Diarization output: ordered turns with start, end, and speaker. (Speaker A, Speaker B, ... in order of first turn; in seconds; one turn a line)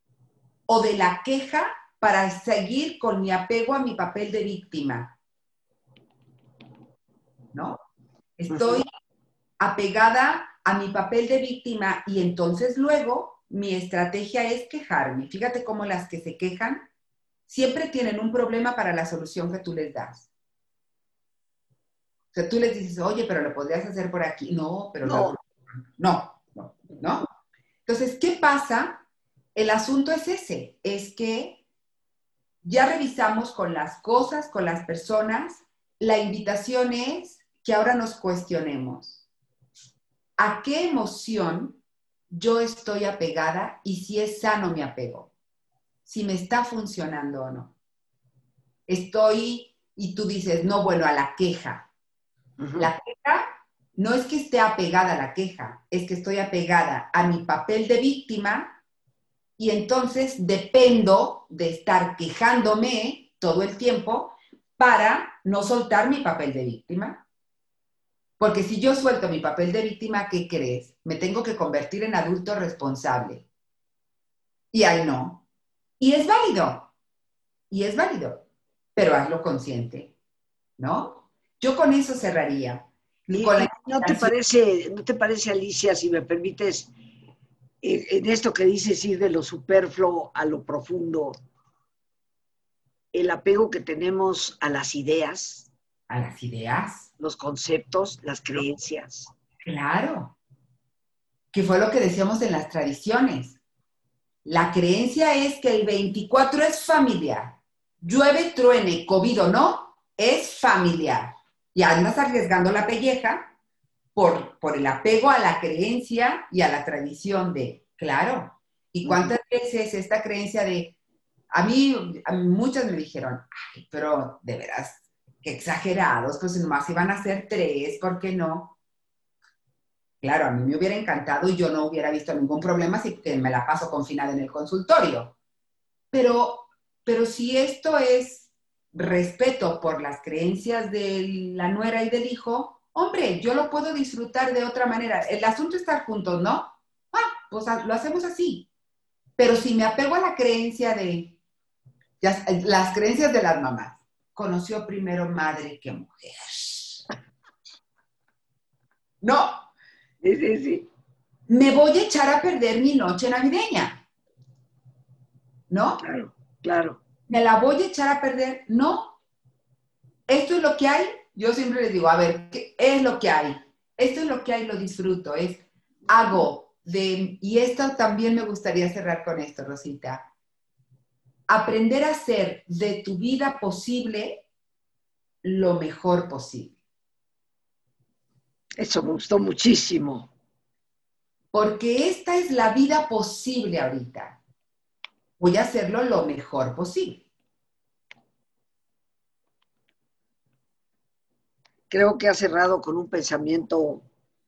Speaker A: 0.7-5.2
Speaker A: 8.4-8.9
Speaker B: 8.5-8.8
Speaker A: 9.6-16.9
Speaker A: 17.5-20.3
Speaker A: 22.3-27.3
Speaker B: 25.1-25.4
Speaker A: 27.9-31.6
Speaker A: 32.6-39.2
Speaker A: 40.4-45.3
Speaker A: 46.1-47.8
Speaker A: 48.9-51.9
Speaker B: 52.6-52.9
Speaker A: 52.8-58.8
Speaker A: 59.6-67.2
Speaker A: 68.4-73.5
Speaker A: 74.7-75.5
Speaker A: 76.0-76.9
Speaker A: 77.7-80.1
Speaker A: 80.8-84.3
Speaker B: 83.3-86.9
Speaker B: 87.8-91.3
Speaker B: 93.1-95.7
Speaker A: 96.1-97.1
Speaker B: 97.2-99.3
Speaker A: 99.7-100.4
Speaker A: 101.5-103.6
Speaker A: 104.5-113.5
Speaker A: 114.2-121.0
Speaker B: 119.0-119.3
Speaker A: 121.5-128.8
Speaker A: 130.2-135.3
Speaker A: 136.1-148.7
Speaker A: 149.4-151.4
Speaker A: 152.2-157.1
Speaker A: 159.2-159.7
Speaker B: 160.2-160.9
Speaker A: 161.5-164.0
Speaker A: 165.7-166.0
Speaker B: 166.0-167.0
Speaker A: 167.3-169.2
Speaker A: 170.3-180.3
Speaker A: 181.5-184.5
Speaker A: 185.4-186.8
Speaker B: 188.8-190.3
Speaker A: 191.5-194.4
Speaker A: 195.4-197.3
Speaker B: 201.9-204.1